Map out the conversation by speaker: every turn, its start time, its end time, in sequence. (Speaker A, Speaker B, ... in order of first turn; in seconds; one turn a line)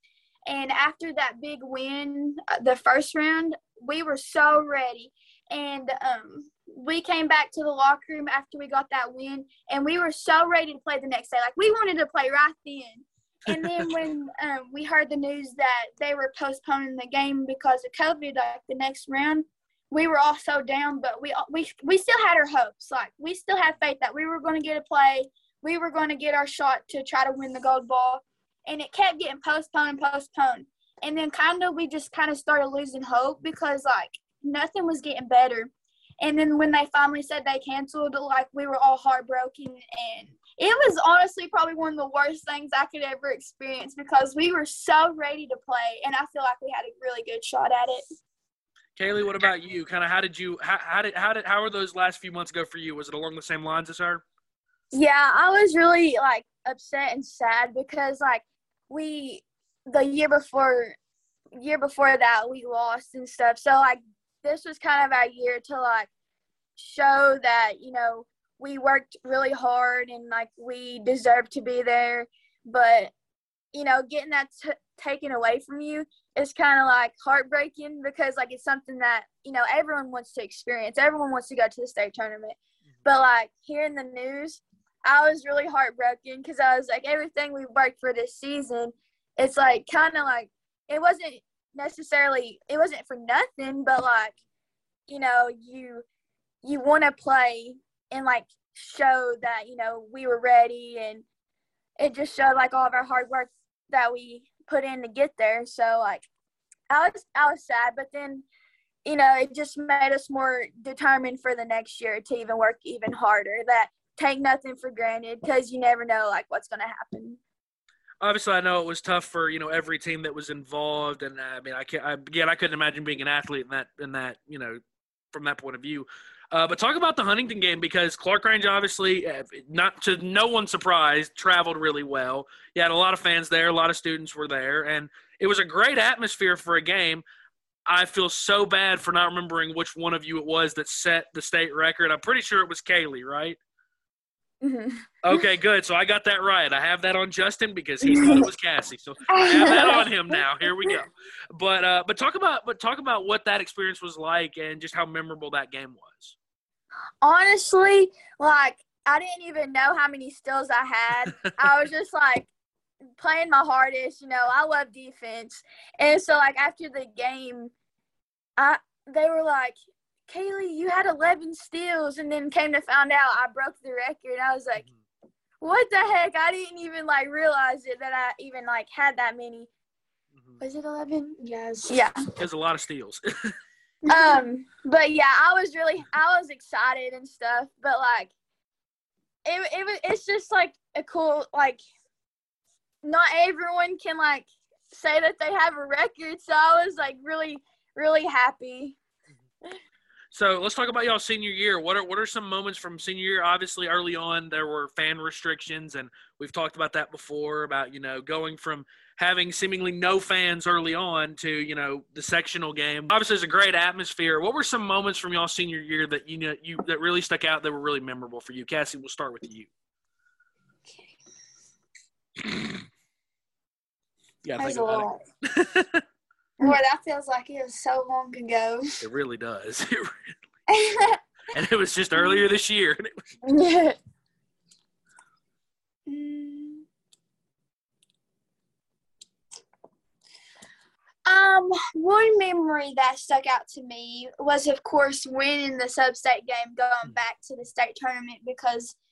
Speaker A: 0.5-48.0
Speaker B: 13.6-13.9
Speaker B: 49.0-54.2
Speaker C: 54.9-60.9
Speaker C: 61.6-66.1
Speaker C: 66.8-73.1
Speaker C: 73.7-94.3
Speaker C: 95.1-96.0
Speaker C: 96.6-101.2
Speaker C: 102.0-106.3
Speaker C: 106.9-108.4
Speaker C: 109.0-117.4
Speaker B: 118.2-124.8
Speaker B: 125.3-137.2
Speaker B: 137.9-143.6
Speaker C: 144.6-145.4
Speaker B: 145.2-156.3
Speaker C: 148.1-148.4
Speaker A: 149.3-150.0
Speaker C: 149.4-150.4
Speaker C: 157.2-162.5
Speaker C: 163.2-167.7
Speaker C: 168.6-174.8
Speaker C: 175.6-179.7
Speaker A: 180.6-182.0
Speaker C: 181.9-182.1
Speaker B: 182.4-183.5
Speaker A: 184.0-184.4
Speaker C: 184.1-188.3
Speaker C: 189.4-191.8
Speaker C: 193.0-199.0
Speaker B: 200.3-219.7
Speaker A: 220.9-221.1
Speaker B: 224.4-226.0
Speaker A: 224.6-225.2
Speaker A: 226.6-229.0
Speaker B: 229.0-230.3
Speaker A: 230.8-231.2
Speaker B: 231.5-233.3
Speaker C: 233.4-234.0
Speaker A: 236.1-236.8
Speaker A: 241.2-248.9